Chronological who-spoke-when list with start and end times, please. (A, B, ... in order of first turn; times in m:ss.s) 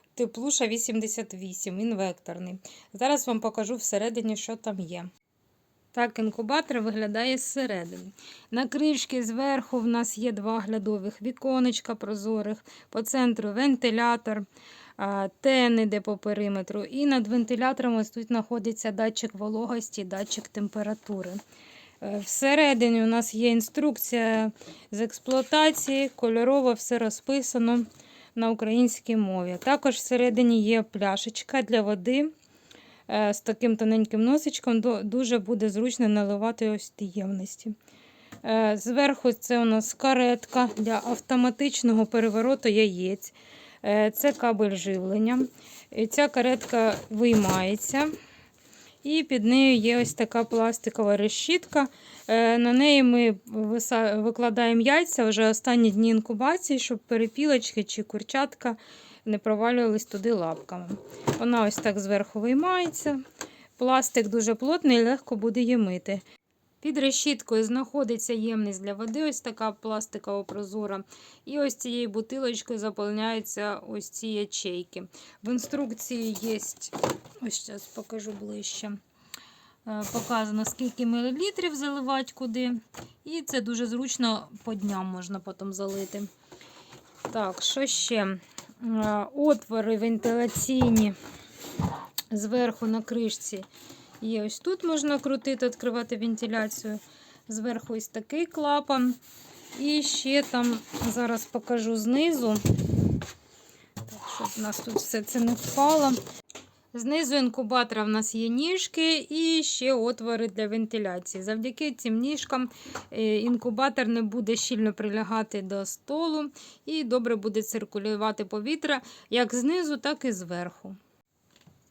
0:00.1-0:05.1 A
0:05.9-0:14.4 A
0:15.0-0:21.4 A
0:22.0-0:32.3 A
0:33.1-0:37.7 A
0:38.4-0:48.1 A
0:49.0-1:03.2 A
1:03.8-1:06.2 A
1:06.8-1:19.0 A
1:19.8-1:26.3 A
1:27.3-1:31.1 A
1:32.3-1:33.7 A
1:34.2-1:39.2 A
1:39.7-1:42.6 A
1:44.1-1:46.2 A
1:46.9-2:01.0 A